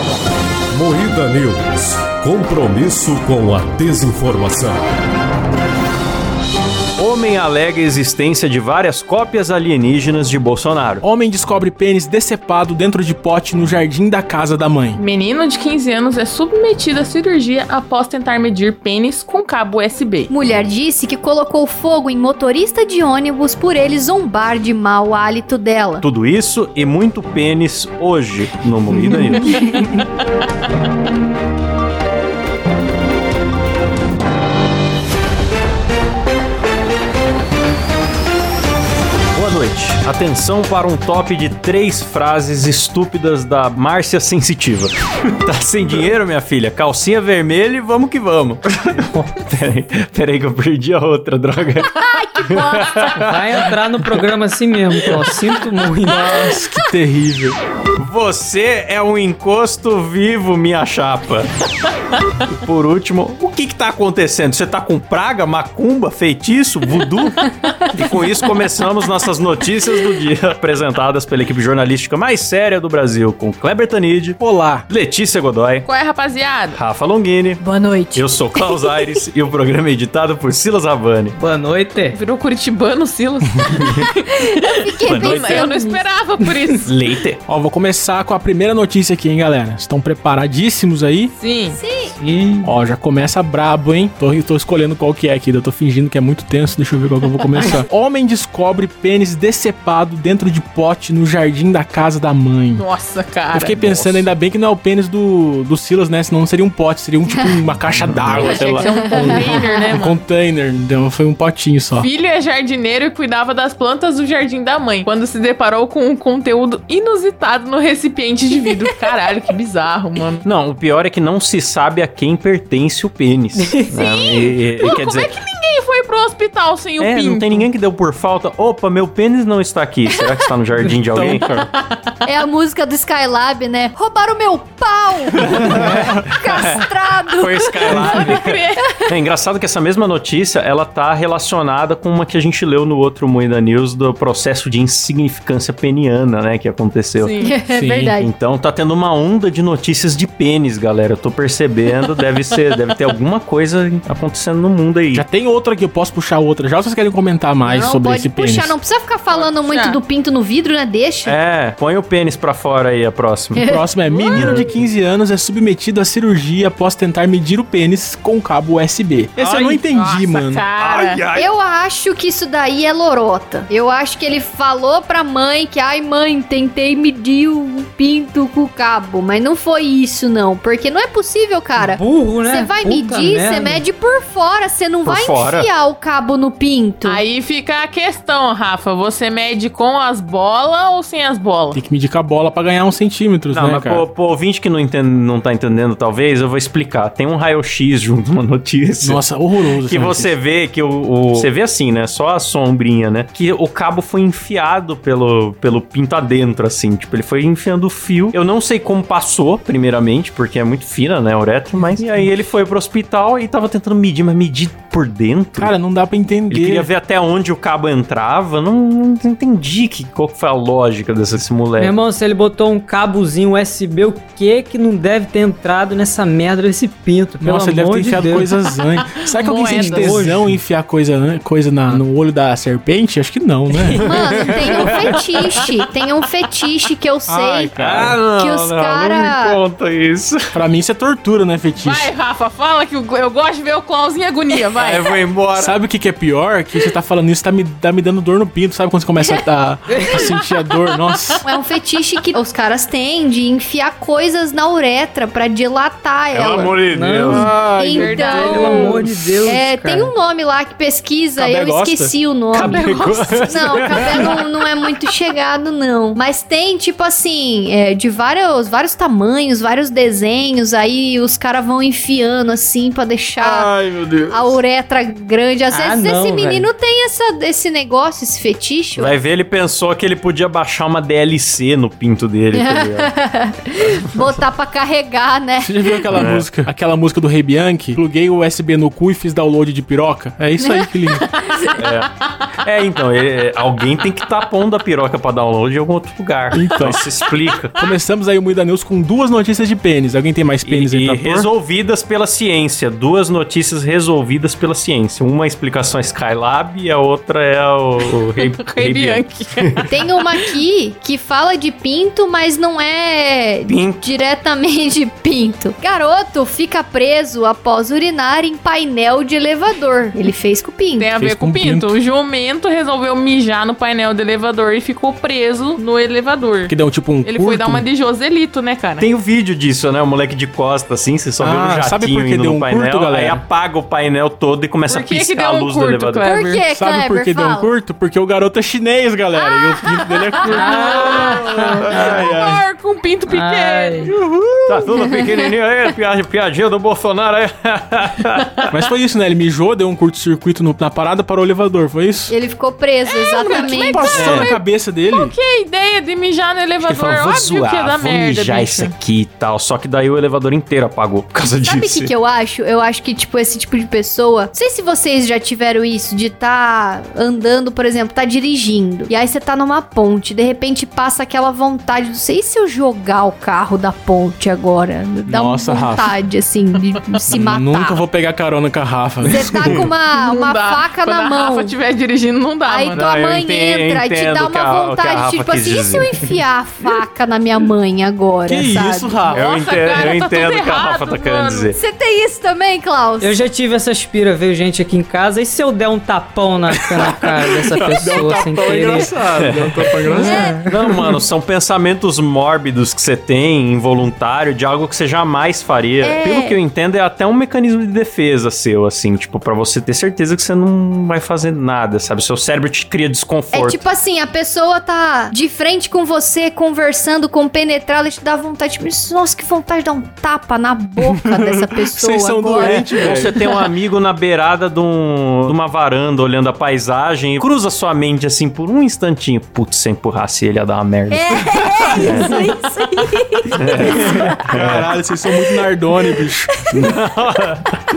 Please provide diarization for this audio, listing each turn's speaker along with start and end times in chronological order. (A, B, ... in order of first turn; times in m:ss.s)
0:00.7-0:04.8 A
0:07.0-0:11.0 B
0:11.0-0:15.0 C
0:15.0-0:20.3 D
0:20.3-0:26.0 E
0:26.0-0:29.6 B
0:29.5-0:29.9 D
0:39.4-0:51.9 B
0:52.0-0:53.0 E
0:52.5-0:54.2 B
0:53.2-0:56.3 F
0:55.0-0:55.4 B
0:56.1-0:57.6 C
0:58.0-1:01.5 B
1:02.5-1:07.4 B
1:07.9-1:14.4 B
1:14.4-1:14.9 C
1:14.9-1:15.9 B
1:15.8-1:16.8 D
1:16.7-1:17.6 B
1:17.6-1:19.1 E
1:18.1-1:21.4 B
1:21.4-1:22.2 F
1:22.1-1:27.0 D
1:24.5-1:26.1 E
1:25.1-1:25.4 B
1:25.1-1:25.7 C
1:26.8-1:27.4 B
1:27.5-1:31.3 C
1:31.4-1:31.8 D
1:31.7-1:32.2 E
1:32.2-1:32.7 F
1:32.6-1:42.9 C
1:42.8-1:44.2 D
1:43.5-1:52.1 C
1:47.3-1:47.6 E
1:47.9-1:48.8 B
1:48.4-1:50.2 D
1:48.5-1:49.8 E
1:52.0-2:00.4 D
2:00.4-2:05.3 B
2:03.6-2:03.9 F
2:04.0-2:07.7 D
2:07.0-2:11.5 B
2:10.8-2:11.5 F
2:11.1-2:11.6 C
2:12.2-2:18.3 E
2:15.5-2:27.4 B
2:15.8-2:16.2 F
2:17.8-2:18.9 D
2:17.9-2:18.2 C
2:27.2-2:27.5 D
2:27.4-2:28.3 E
2:27.7-2:28.2 C
2:28.2-2:35.2 B
2:35.1-2:38.8 C
2:37.6-2:41.4 E
2:39.3-2:40.0 D
2:41.3-2:43.7 B
2:43.6-2:44.7 E
2:43.6-2:50.6 C
2:44.3-2:44.7 B
2:49.4-2:49.8 B
2:49.9-2:51.2 D
2:50.8-2:51.5 B
2:51.4-3:07.2 E
3:01.8-3:03.8 F
3:05.0-3:05.7 B
3:07.0-3:11.8 D
3:11.7-3:14.1 C
3:13.5-3:19.2 B
3:19.0-3:20.3 C
3:19.9-3:35.7 B
3:31.8-3:32.3 C
3:35.6-3:36.9 C
3:36.5-3:42.0 B
3:41.8-3:48.5 F
3:47.4-3:54.0 C
3:49.2-3:50.2 D
3:49.6-3:50.6 F
3:54.0-3:55.7 B
3:54.0-3:57.7 E
3:54.8-3:55.8 D
3:57.3-3:58.2 C
3:57.8-4:00.6 B
3:58.3-3:59.6 E
4:00.5-4:02.1 C
4:01.8-4:05.2 D
4:04.8-4:05.7 B
4:05.6-4:11.4 C
4:11.4-4:16.8 E
4:16.3-4:17.6 B
4:16.9-4:17.5 F
4:17.3-4:18.3 C
4:17.6-4:33.7 E
4:17.9-4:18.9 D
4:18.3-4:20.1 F
4:21.4-4:22.8 C
4:22.5-4:24.4 B
4:23.8-4:24.2 C
4:33.4-4:34.6 C
4:34.3-4:39.2 E
4:35.7-4:36.7 F
4:39.0-4:43.1 B
4:42.6-4:46.1 E
4:43.8-4:44.3 B
4:45.6-4:51.3 C
4:46.1-4:46.5 B
4:50.6-4:51.8 E
4:51.8-4:52.1 B
4:52.6-4:57.8 B
4:56.5-4:57.0 C
4:57.8-5:01.5 C
5:00.6-5:09.9 B
5:08.3-5:09.9 D
5:09.9-5:21.1 E
5:13.7-5:14.0 B
5:21.0-5:29.1 D
5:21.2-5:21.9 C
5:26.7-5:27.8 C
5:29.0-5:36.2 B
5:31.4-5:33.4 C
5:34.9-5:36.6 D
5:36.2-5:37.7 E
5:36.7-5:42.6 C
5:40.4-5:44.1 D
5:40.4-5:41.9 E
5:40.6-5:41.1 F
5:41.6-5:42.1 B
5:41.9-5:42.3 F
5:43.3-5:44.1 F
5:44.0-5:44.9 C
5:44.7-5:48.5 B
5:48.7-5:52.4 C
5:52.3-5:54.5 E
5:53.3-5:58.9 D
5:53.3-5:55.3 C
5:56.8-6:02.1 B
6:01.6-6:18.0 E
6:15.3-6:16.2 C
6:17.3-6:19.9 C
6:19.3-6:19.9 B
6:19.3-6:21.8 E
6:20.1-6:23.0 D
6:22.7-6:29.3 E
6:22.9-6:26.1 B
6:28.5-6:29.4 C
6:29.3-6:31.7 D
6:29.3-6:31.8 B
6:31.8-6:33.4 E
6:33.2-6:39.2 F
6:37.0-6:40.6 C
6:39.3-6:53.8 B
6:40.1-6:40.8 F
6:40.2-6:40.6 E
6:46.0-6:46.6 E
6:53.5-7:03.4 E
7:01.0-7:03.3 C
7:02.6-7:11.3 B
7:11.1-7:14.4 E
7:11.9-7:12.2 C
7:12.0-7:12.4 B
7:13.5-7:14.9 B
7:13.8-7:16.5 C
7:15.3-7:16.2 E
7:16.7-7:17.7 B